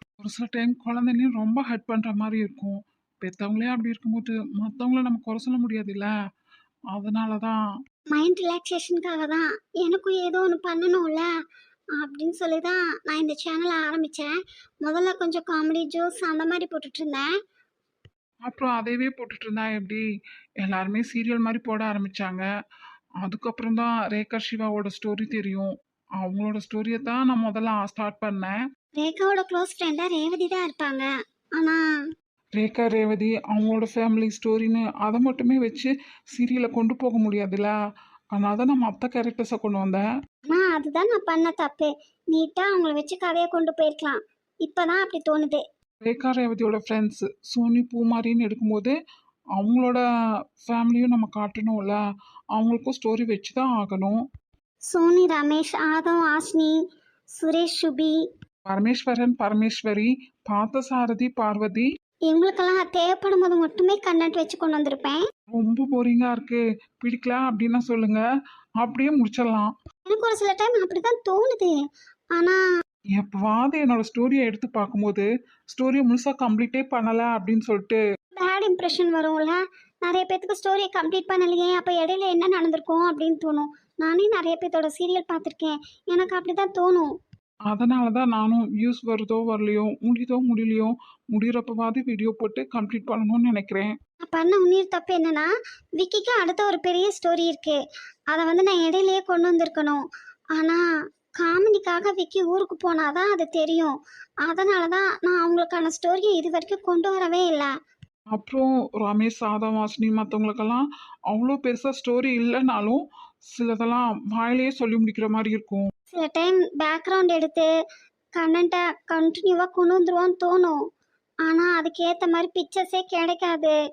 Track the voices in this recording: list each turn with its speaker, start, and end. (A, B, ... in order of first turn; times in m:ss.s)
0:00.2-0:06.1 A
0:06.9-0:07.6 A
0:08.1-0:11.3 B
0:12.0-0:17.3 B
0:18.4-0:20.0 A
0:20.6-0:22.5 A
0:23.2-0:28.6 A
0:29.0-0:31.8 B
0:32.6-0:37.8 A
0:38.3-0:40.1 A
0:40.5-0:45.6 B
0:46.0-0:49.0 A
0:49.6-0:50.0 A
0:50.6-0:52.0 A
0:52.5-0:54.2 A
0:54.9-0:56.8 B
0:57.4-0:58.2 B
0:58.7-1:01.9 A
1:02.3-1:05.2 B
1:05.5-1:08.2 A
1:08.8-1:09.7 A
1:10.1-1:11.7 B
1:13.2-1:18.0 A
1:18.4-1:27.1 B
1:27.7-1:34.0 A
1:34.3-1:37.8 B
1:38.3-1:40.0 B
1:40.6-1:40.8 B
1:41.4-1:43.9 B
1:44.4-1:47.7 B
1:48.4-1:55.9 A
1:56.1-1:57.7 B
1:58.4-2:00.8 B
2:01.5-2:03.8 B